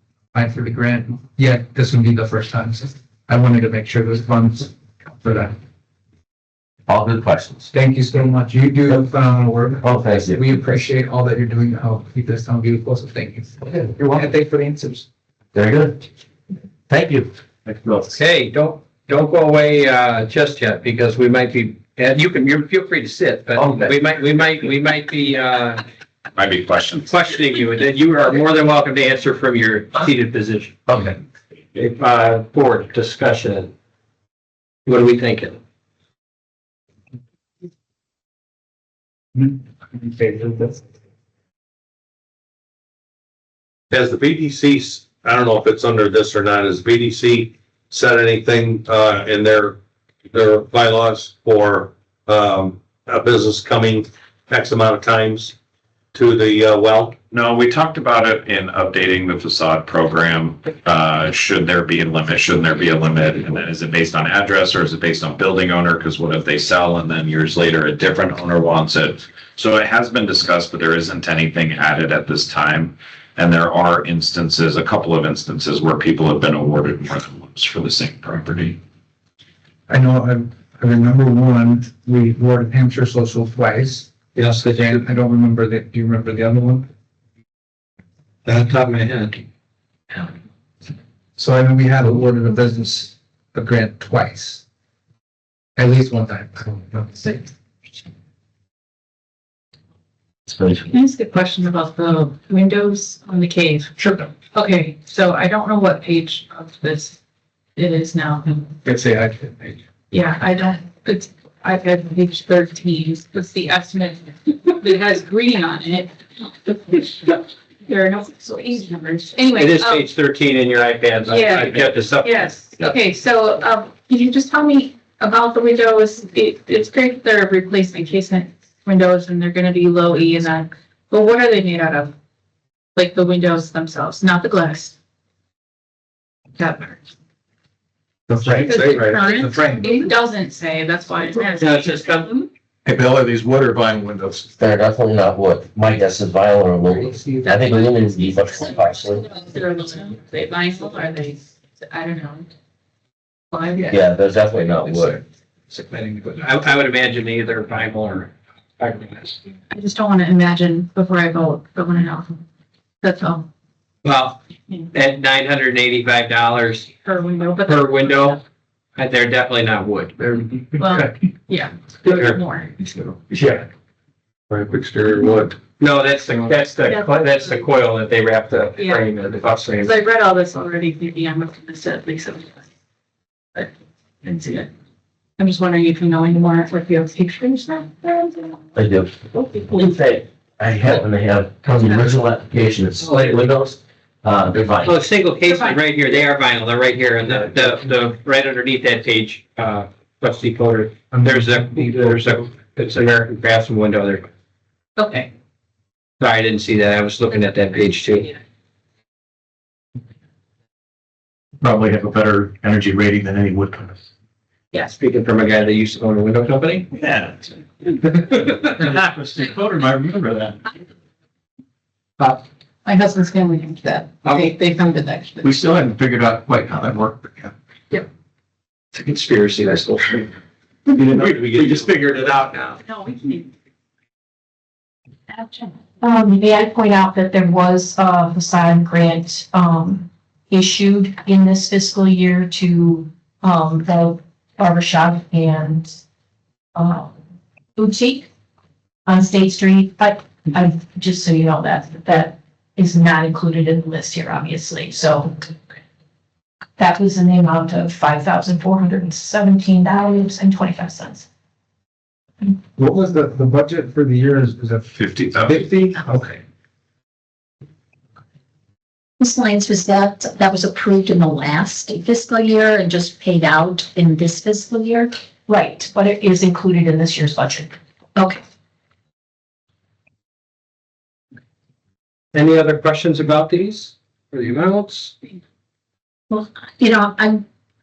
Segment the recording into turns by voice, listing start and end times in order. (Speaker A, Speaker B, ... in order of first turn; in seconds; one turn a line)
Speaker A: 0.3-5.5
Speaker B: 6.9-7.7
Speaker A: 7.7-15.1
Speaker B: 9.8-10.5
Speaker B: 13.6-14.3
Speaker B: 15.5-16.0
Speaker B: 16.9-18.0
Speaker C: 18.1-25.8
Speaker B: 23.6-24.0
Speaker D: 26.3-27.1
Speaker C: 27.1-30.8
Speaker C: 31.7-33.7
Speaker C: 34.9-35.6
Speaker A: 39.4-40.8
Speaker E: 43.9-49.8
Speaker E: 50.3-55.5
Speaker E: 56.1-57.2
Speaker D: 57.3-78.8
Speaker A: 79.9-86.9
Speaker A: 91.4-94.6
Speaker A: 95.8-97.4
Speaker B: 100.5-100.9
Speaker F: 100.9-103.9
Speaker F: 104.5-107.2
Speaker F: 107.8-108.7
Speaker A: 108.8-109.8
Speaker F: 110.1-120.1
Speaker C: 119.5-122.5
Speaker F: 121.3-132.1
Speaker F: 132.9-134.9
Speaker F: 136.6-137.0
Speaker F: 138.5-142.4
Speaker G: 139.0-139.6
Speaker C: 141.4-142.3
Speaker G: 142.8-144.4
Speaker B: 144.6-149.2
Speaker A: 146.9-147.6
Speaker F: 147.5-152.5
Speaker F: 153.5-154.0
Speaker B: 153.8-155.2
Speaker A: 154.9-155.2
Speaker A: 155.7-156.5
Speaker C: 156.4-159.4
Speaker F: 159.7-162.4
Speaker F: 163.0-163.5
Speaker C: 164.0-164.4
Speaker C: 164.9-166.9
Speaker F: 167.0-168.4
Speaker C: 167.6-168.4
Speaker C: 168.9-171.1
Speaker F: 170.8-173.2
Speaker C: 172.0-172.4
Speaker C: 173.3-173.6
Speaker G: 174.7-175.4
Speaker C: 175.8-179.9
Speaker F: 176.8-177.3
Speaker F: 178.8-179.1
Speaker F: 179.8-182.6
Speaker F: 184.2-184.7
Speaker F: 185.4-188.6
Speaker B: 188.7-195.0
Speaker C: 193.0-193.4
Speaker C: 194.8-204.3
Speaker F: 195.4-195.8
Speaker A: 201.1-202.4
Speaker F: 205.0-205.3
Speaker C: 206.2-208.3
Speaker G: 211.6-213.8
Speaker C: 214.9-216.9
Speaker C: 218.0-218.8
Speaker G: 218.9-220.2
Speaker F: 222.8-225.6
Speaker G: 225.4-227.3
Speaker C: 228.9-230.3
Speaker G: 230.9-232.6
Speaker E: 231.0-232.5
Speaker F: 232.8-233.5
Speaker F: 235.3-235.8
Speaker H: 236.0-246.0
Speaker H: 246.7-247.1
Speaker H: 247.8-248.3
Speaker H: 249.1-255.4
Speaker H: 256.8-261.2
Speaker A: 262.8-266.3
Speaker I: 269.2-275.1
Speaker H: 275.5-277.7
Speaker I: 278.1-278.4
Speaker C: 282.3-285.1
Speaker I: 286.3-287.4